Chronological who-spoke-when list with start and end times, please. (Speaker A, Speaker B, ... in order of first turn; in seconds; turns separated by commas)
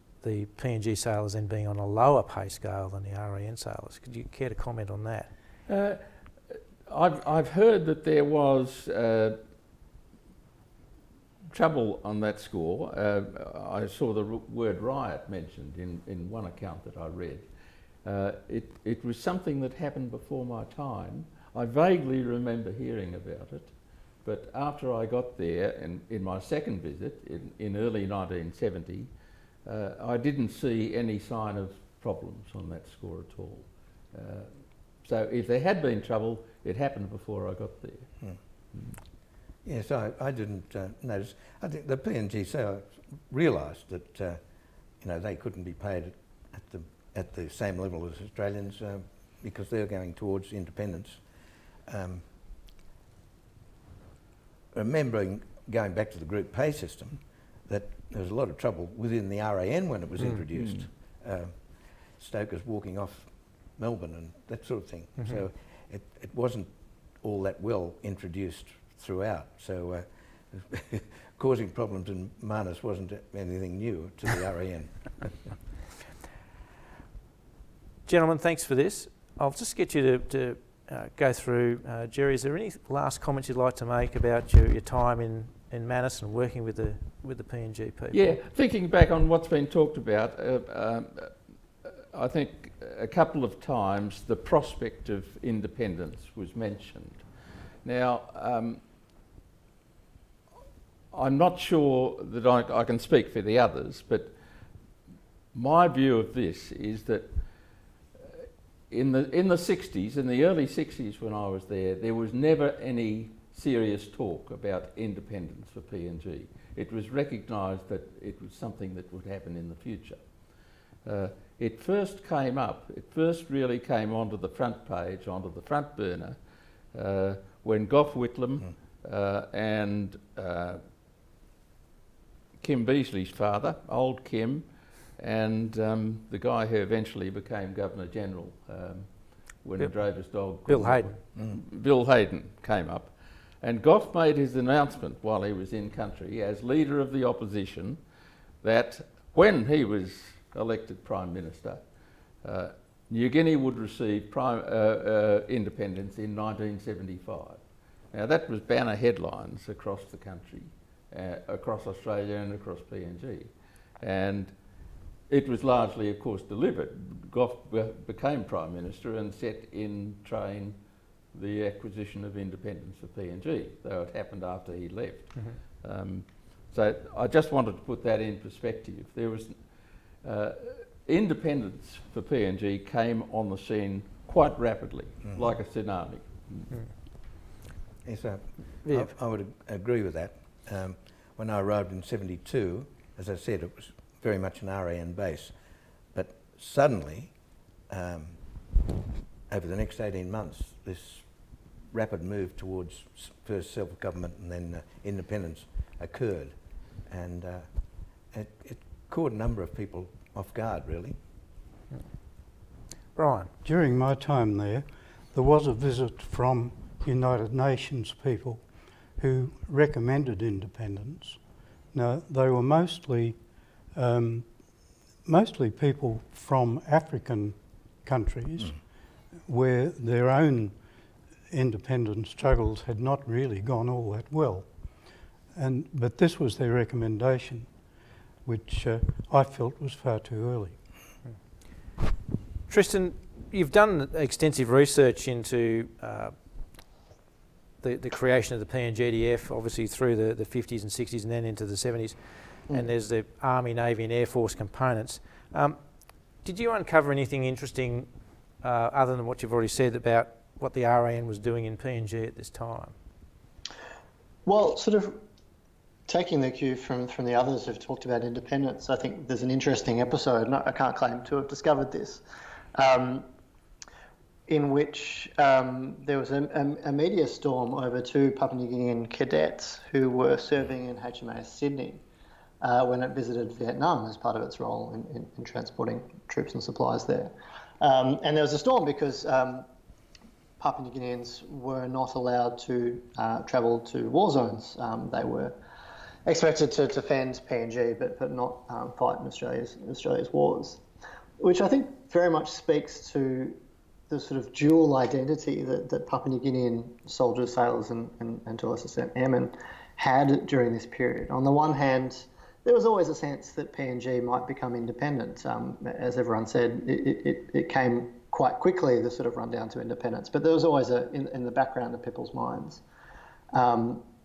Speaker A: 0.2-5.3, Speaker B: 5.7-9.4, Speaker B: 11.5-17.5, Speaker B: 18.0-23.7, Speaker B: 24.2-29.1, Speaker B: 29.6-34.5, Speaker B: 35.0-38.1, Speaker C: 39.6-44.4, Speaker C: 45.0-51.2, Speaker C: 51.9-52.3, Speaker C: 54.7-75.4, Speaker B: 60.5-60.8, Speaker A: 78.1-88.4, Speaker B: 88.1-97.2, Speaker B: 97.8-98.8, Speaker B: 101.1-104.3, Speaker B: 105.5-107.3, Speaker B: 108.9-120.2, Speaker B: 121.0-126.4, Speaker B: 126.9-130.8, Speaker B: 132.6-148.0, Speaker A: 140.4-141.1, Speaker B: 148.6-151.8, Speaker B: 152.4-164.5, Speaker B: 165.3-170.8, Speaker B: 171.3-179.7, Speaker B: 180.2-186.7, Speaker C: 188.0-195.5, Speaker A: 188.8-189.1, Speaker C: 196.1-197.3, Speaker C: 197.9-198.4, Speaker C: 199.5-201.3, Speaker C: 201.9-206.6, Speaker C: 207.1-207.7, Speaker C: 208.3-211.2, Speaker A: 213.1-213.5, Speaker D: 213.6-218.6, Speaker D: 219.2-221.4, Speaker D: 221.9-223.4, Speaker D: 223.9-224.5, Speaker D: 225.2-228.8, Speaker D: 229.5-230.8, Speaker D: 231.5-234.7, Speaker D: 235.6-237.7, Speaker D: 238.4-240.8, Speaker A: 242.7-246.3, Speaker A: 247.8-252.2, Speaker A: 252.7-255.8, Speaker A: 256.4-258.1, Speaker A: 258.6-262.9, Speaker E: 264.4-265.2, Speaker E: 266.1-272.2, Speaker E: 272.7-273.3, Speaker E: 274.5-282.0, Speaker E: 282.6-289.7, Speaker E: 290.6-295.6, Speaker E: 296.3-300.8, Speaker E: 301.4-303.6, Speaker E: 304.1-322.8, Speaker E: 323.5-324.0